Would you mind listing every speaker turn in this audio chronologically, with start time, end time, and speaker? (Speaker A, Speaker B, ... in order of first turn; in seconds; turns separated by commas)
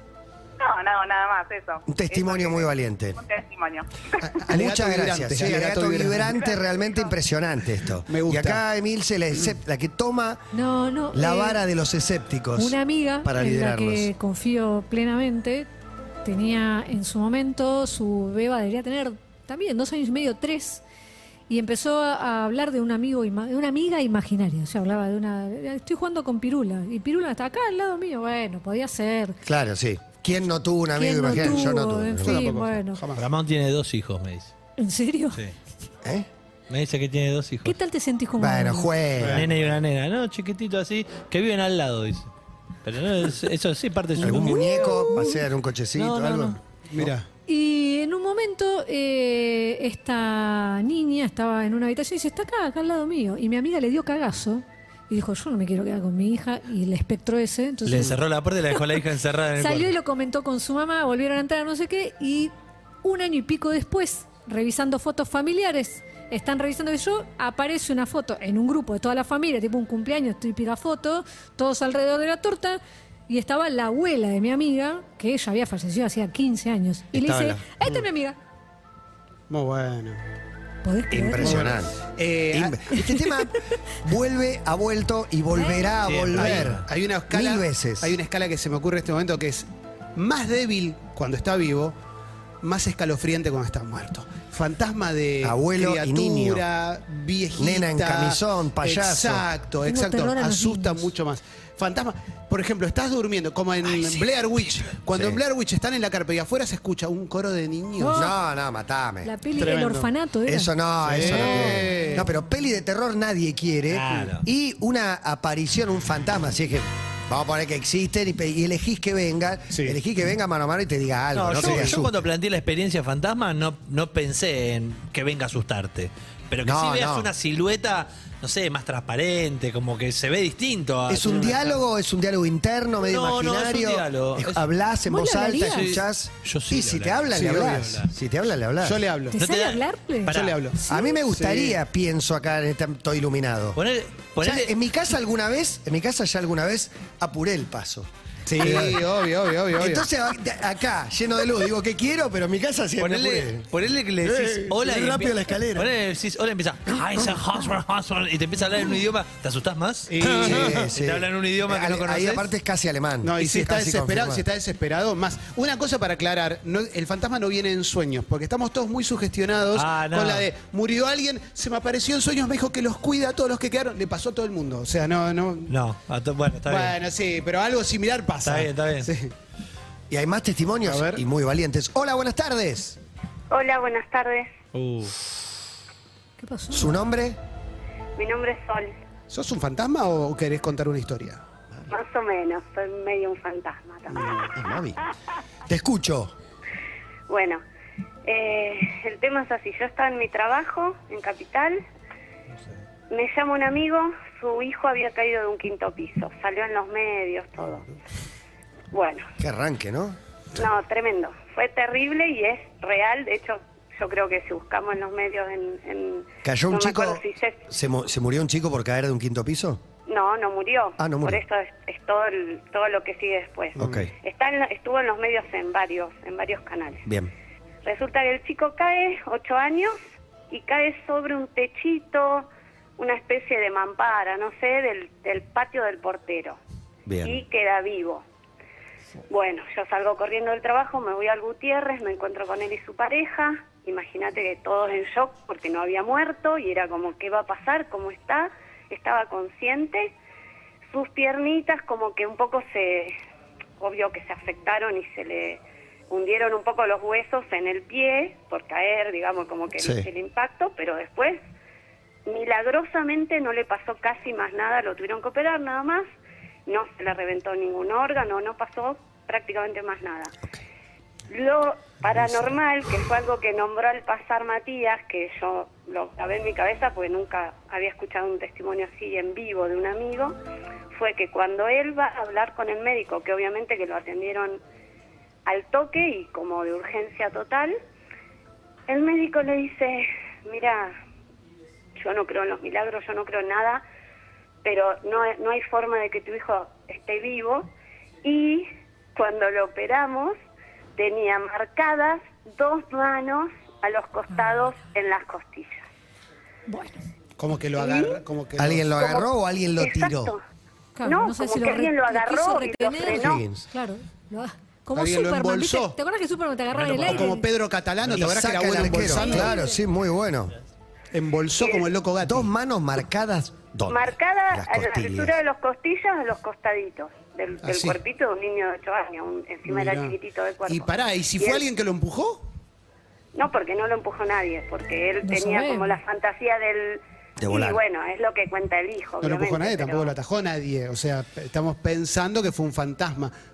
Speaker A: 0.6-4.2, Speaker B: 1.9-3.2, Speaker C: 4.2-6.4, Speaker B: 4.5-10.4, Speaker C: 8.1-8.6, Speaker D: 10.5-11.6, Speaker B: 11.1-14.1, Speaker D: 12.6-15.7, Speaker D: 16.2-20.8, Speaker D: 21.5-29.4, Speaker B: 29.4-32.4, Speaker D: 30.9-33.0, Speaker C: 31.3-31.7, Speaker C: 32.2-33.2, Speaker E: 33.2-34.5, Speaker D: 34.8-35.4, Speaker E: 36.7-37.8, Speaker D: 37.6-38.9, Speaker B: 38.4-39.5, Speaker C: 39.2-39.5, Speaker E: 39.3-42.3, Speaker E: 42.9-45.1, Speaker B: 44.2-47.1, Speaker D: 44.2-45.4, Speaker E: 46.0-46.6, Speaker C: 46.9-47.3, Speaker D: 47.5-58.2, Speaker E: 57.9-59.9, Speaker D: 58.7-59.0, Speaker D: 59.6-78.4, Speaker B: 77.1-77.6, Speaker C: 79.5-80.2, Speaker D: 80.8-81.7, Speaker B: 81.1-82.0, Speaker C: 81.4-82.9, Speaker B: 82.5-88.2, Speaker D: 85.5-85.9, Speaker E: 86.0-86.9, Speaker C: 86.3-92.0, Speaker C: 92.6-108.3, Speaker B: 95.4-96.6, Speaker B: 97.6-99.5, Speaker D: 99.9-101.1, Speaker B: 105.1-105.4, Speaker D: 108.0-108.3, Speaker B: 108.1-109.3, Speaker D: 109.2-112.2, Speaker C: 109.6-110.1, Speaker B: 110.5-122.1, Speaker C: 111.0-112.3, Speaker E: 113.9-114.5, Speaker C: 119.7-120.0, Speaker E: 121.3-131.7, Speaker C: 121.6-122.0, Speaker B: 126.6-127.3, Speaker B: 131.1-139.1, Speaker C: 131.3-131.5, Speaker E: 133.0-134.7, Speaker D: 135.1-136.0, Speaker E: 135.7-138.1, Speaker C: 137.3-138.0, Speaker C: 138.8-139.4, Speaker D: 139.3-141.2, Speaker E: 139.4-140.6, Speaker C: 140.3-140.8, Speaker B: 140.9-143.8, Speaker C: 141.3-141.8, Speaker E: 143.8-144.7, Speaker B: 144.4-149.1, Speaker C: 148.5-150.1, Speaker B: 149.8-153.7, Speaker E: 153.0-162.4, Speaker B: 154.2-155.9, Speaker C: 154.9-155.3, Speaker C: 160.1-160.8, Speaker B: 160.3-164.4, Speaker C: 163.2-175.8, Speaker E: 169.7-170.5, Speaker E: 175.7-177.0, Speaker C: 176.7-179.3, Speaker E: 178.4-179.1, Speaker B: 180.1-183.0, Speaker C: 180.9-181.2, Speaker F: 183.5-184.5, Speaker E: 184.7-185.2, Speaker D: 186.4-186.9, Speaker B: 186.7-187.4, Speaker F: 188.2-188.9, Speaker C: 189.3-191.4, Speaker F: 191.9-194.6, Speaker B: 194.5-195.0, Speaker B: 195.7-196.3, Speaker F: 197.3-197.6, Speaker F: 198.2-201.8, Speaker F: 203.1-207.8, Speaker F: 208.9-209.3, Speaker B: 209.4-210.2, Speaker F: 210.6-217.7, Speaker B: 216.4-219.8, Speaker F: 220.1-227.1, Speaker B: 221.0-221.4, Speaker C: 223.8-224.1, Speaker B: 223.8-224.1, Speaker B: 227.1-227.3, Speaker F: 227.8-230.0, Speaker F: 230.5-236.6, Speaker B: 237.1-237.4, Speaker F: 237.2-238.2, Speaker F: 239.3-250.1, Speaker F: 250.9-253.2, Speaker F: 253.8-261.4, Speaker B: 259.8-260.1, Speaker F: 262.3-266.1, Speaker F: 266.7-270.4, Speaker F: 271.3-280.4, Speaker F: 280.9-284.6, Speaker F: 285.5-287.8, Speaker F: 288.9-290.9, Speaker F: 292.0-293.8, Speaker F: 294.6-297.7, Speaker F: 298.2-300.4, Speaker F: 301.0-305.9, Speaker D: 306.7-307.0, Speaker C: 307.4-308.9, Speaker F: 307.8-308.2, Speaker B: 308.6-310.4, Speaker F: 309.0-310.4, Speaker D: 311.0-317.5, Speaker F: 311.0-313.5, Speaker B: 313.0-313.6, Speaker C: 314.9-316.0, Speaker E: 316.7-317.3, Speaker C: 316.9-319.5, Speaker B: 318.1-320.6, Speaker D: 319.1-319.8, Speaker C: 321.1-322.5, Speaker F: 321.6-321.9, Speaker B: 322.2-325.4, Speaker F: 323.9-331.7, Speaker C: 327.6-328.0, Speaker C: 329.7-330.1, Speaker C: 330.7-332.4, Speaker F: 333.4-340.1, Speaker D: 335.2-336.0, Speaker B: 337.4-337.8, Speaker C: 339.2-343.3